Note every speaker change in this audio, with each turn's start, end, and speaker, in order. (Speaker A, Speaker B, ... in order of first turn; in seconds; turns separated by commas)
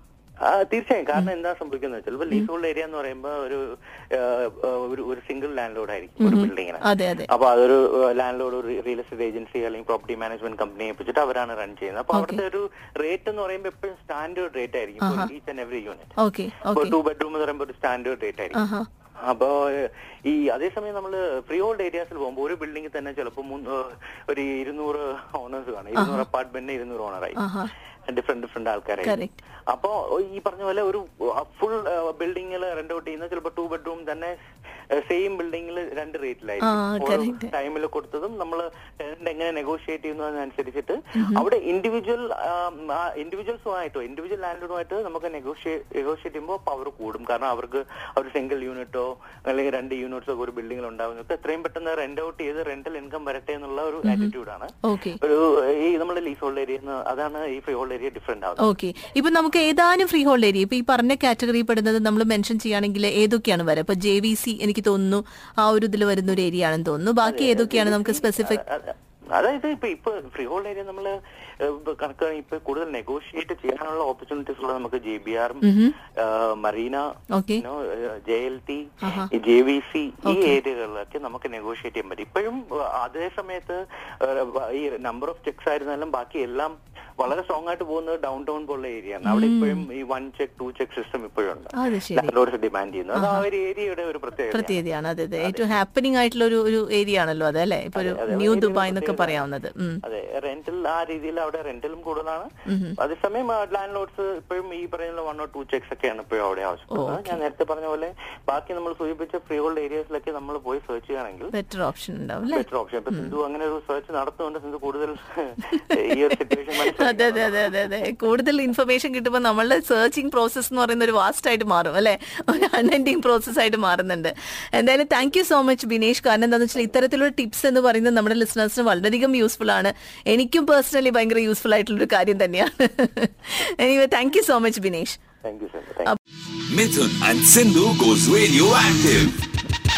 Speaker A: 0.5-3.6, Speaker A: 4.1-16.1, Speaker B: 6.2-7.3, Speaker B: 12.1-12.4, Speaker B: 15.0-15.3, Speaker B: 16.2-16.9, Speaker A: 16.7-18.6, Speaker B: 18.5-18.9, Speaker A: 19.2-27.4, Speaker B: 25.9-26.2, Speaker B: 27.4-27.7, Speaker A: 28.1-29.2, Speaker B: 29.0-29.4, Speaker A: 29.7-34.3, Speaker A: 35.0-58.6, Speaker B: 36.6-37.5, Speaker B: 41.2-41.4, Speaker B: 54.0-54.3, Speaker B: 54.8-55.2, Speaker B: 58.6-68.6, Speaker A: 67.2-77.1, Speaker B: 75.6-75.9, Speaker B: 77.3-77.6, Speaker A: 77.6-94.8, Speaker B: 79.0-79.3, Speaker B: 80.2-80.6, Speaker B: 89.2-89.8, Speaker B: 91.8-92.3, Speaker B: 93.1-93.5, Speaker B: 94.5-100.0, Speaker A: 95.4-95.8, Speaker A: 98.0-99.4, Speaker A: 100.0-111.5, Speaker B: 102.7-103.0, Speaker B: 106.9-107.4, Speaker B: 111.5-113.3, Speaker A: 112.5-117.9, Speaker B: 116.8-135.2, Speaker A: 135.4-136.1, Speaker C: 136.7-139.4